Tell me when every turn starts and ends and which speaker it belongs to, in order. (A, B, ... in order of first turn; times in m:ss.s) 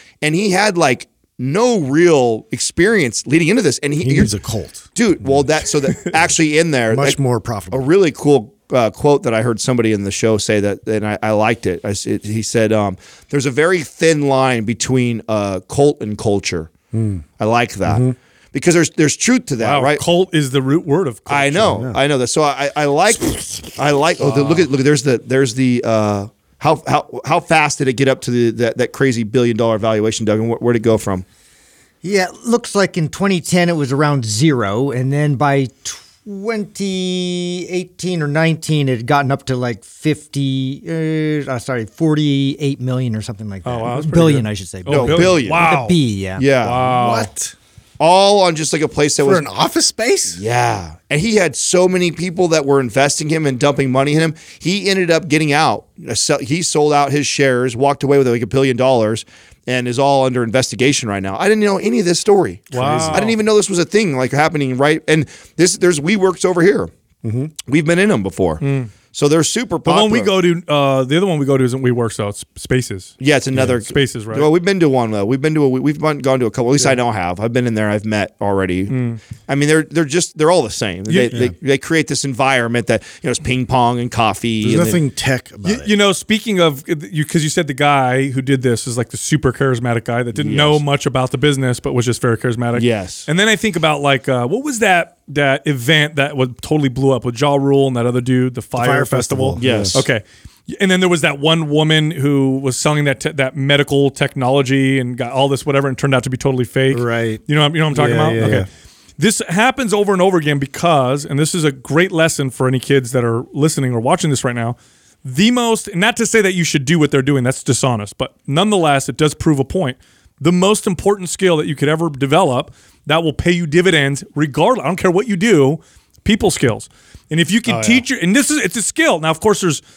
0:00.2-0:04.3 A
0:04.0-0:05.5 B
0:04.9-0:07.2 A
0:06.9-0:07.8 B
0:07.7-0:16.7 A
0:16.9-0:17.2 B
0:17.4-0:20.0 A
0:17.8-0:18.1 B
0:19.6-0:21.7 C
0:21.3-0:31.2 A
0:21.6-0:22.0 B
0:32.0-0:46.4 D
0:43.6-0:46.0 C
0:44.9-0:45.6 A
0:46.4-0:46.8 A
0:46.6-0:47.3 C
0:46.7-0:47.5 B
0:48.0-0:49.4 A
0:49.2-0:50.4 B
0:50.3-1:06.9 A
1:02.7-1:03.3 C
1:02.7-1:03.3 B
1:07.2-1:07.5 B
1:07.6-1:10.3 A
1:08.6-1:08.9 C
1:09.8-1:13.1 C
1:13.2-1:25.0 A
1:13.8-1:14.5 C
1:18.9-1:19.2 C
1:21.1-1:21.4 C
1:24.6-1:25.9 B
1:25.6-1:48.7 C
1:30.3-1:30.8 A
1:32.7-1:33.3 A
1:38.8-1:40.0 B
1:39.6-1:40.0 A
1:46.9-1:48.7 B
1:49.2-2:09.8 C
2:07.7-2:08.0 A